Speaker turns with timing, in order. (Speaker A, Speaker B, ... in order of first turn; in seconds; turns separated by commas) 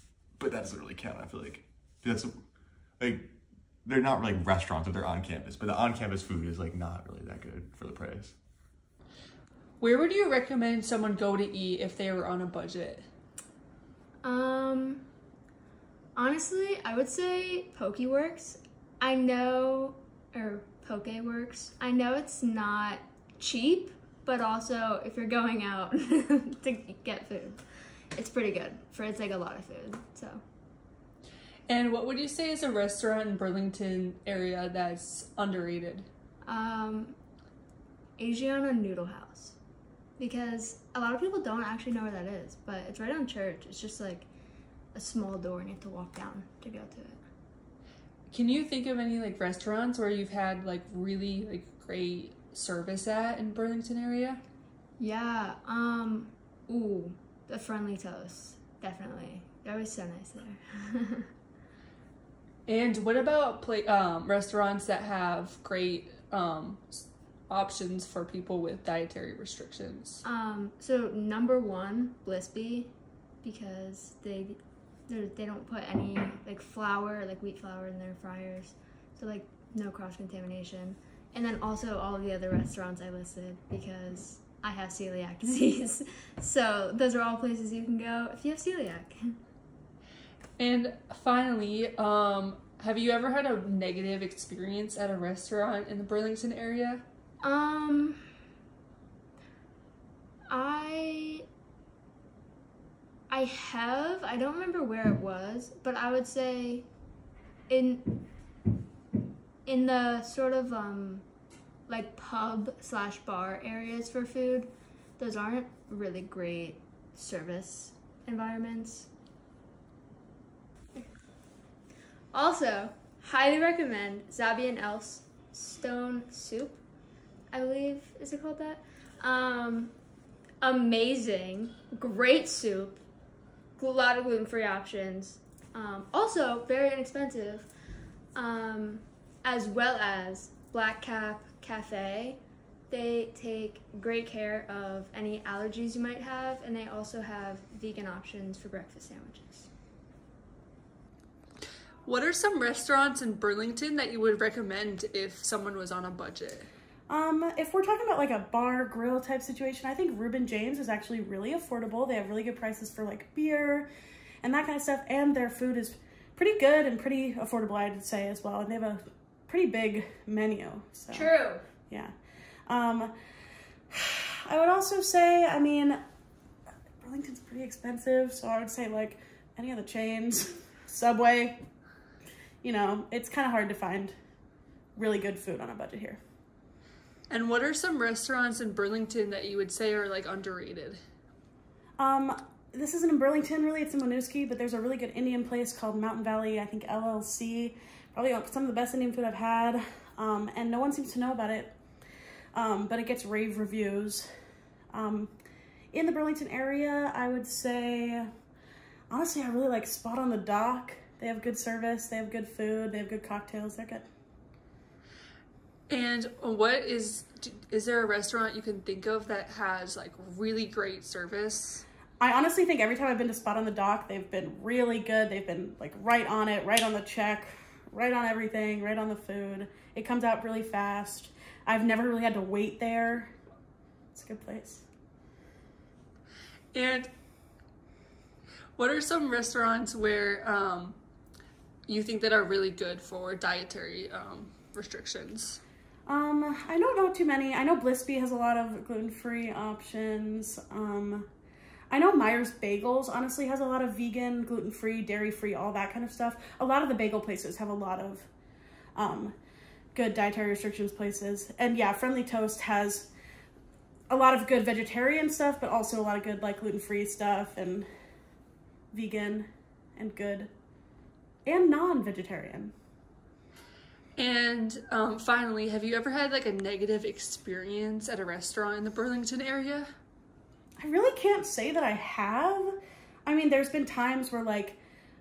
Speaker A: 0.4-2.3, Speaker A: 3.0-8.3, Speaker B: 9.8-13.1, Speaker C: 14.2-15.1, Speaker C: 16.1-30.4, Speaker B: 31.7-36.1, Speaker C: 36.4-37.1, Speaker C: 38.2-39.6, Speaker C: 40.2-44.3, Speaker C: 44.9-47.2, Speaker B: 48.3-54.4, Speaker C: 55.0-61.2, Speaker B: 62.6-70.2, Speaker C: 70.2-89.4, Speaker B: 90.6-97.0, Speaker C: 97.4-98.2, Speaker C: 100.5-101.4, Speaker C: 103.3-106.9, Speaker C: 107.7-108.2, Speaker C: 109.7-111.2, Speaker C: 111.9-119.1, Speaker C: 122.3-126.8, Speaker C: 127.5-129.9, Speaker C: 130.6-133.0, Speaker C: 133.8-137.7, Speaker C: 138.3-149.7, Speaker B: 152.0-156.7, Speaker D: 157.1-163.9, Speaker D: 164.4-171.3, Speaker C: 171.1-171.6, Speaker D: 172.7-173.1, Speaker D: 173.9-176.0, Speaker D: 177.0-181.6, Speaker D: 182.6-184.2, Speaker D: 184.9-186.2, Speaker B: 187.3-191.0, Speaker D: 192.0-201.8, Speaker D: 202.5-204.3, Speaker D: 204.9-205.3, Speaker D: 205.9-208.3, Speaker D: 209.1-214.1, Speaker B: 215.9-221.8, Speaker D: 222.2-233.3, Speaker D: 234.1-234.9, Speaker B: 236.7-237.1, Speaker B: 238.8-241.0, Speaker B: 241.9-245.6, Speaker D: 246.1-251.3, Speaker D: 251.9-258.3, Speaker D: 258.9-259.4, Speaker D: 259.9-263.1, Speaker D: 264.1-267.9, Speaker D: 268.9-270.5, Speaker D: 271.4-272.7, Speaker B: 274.2-279.9, Speaker D: 280.8-284.8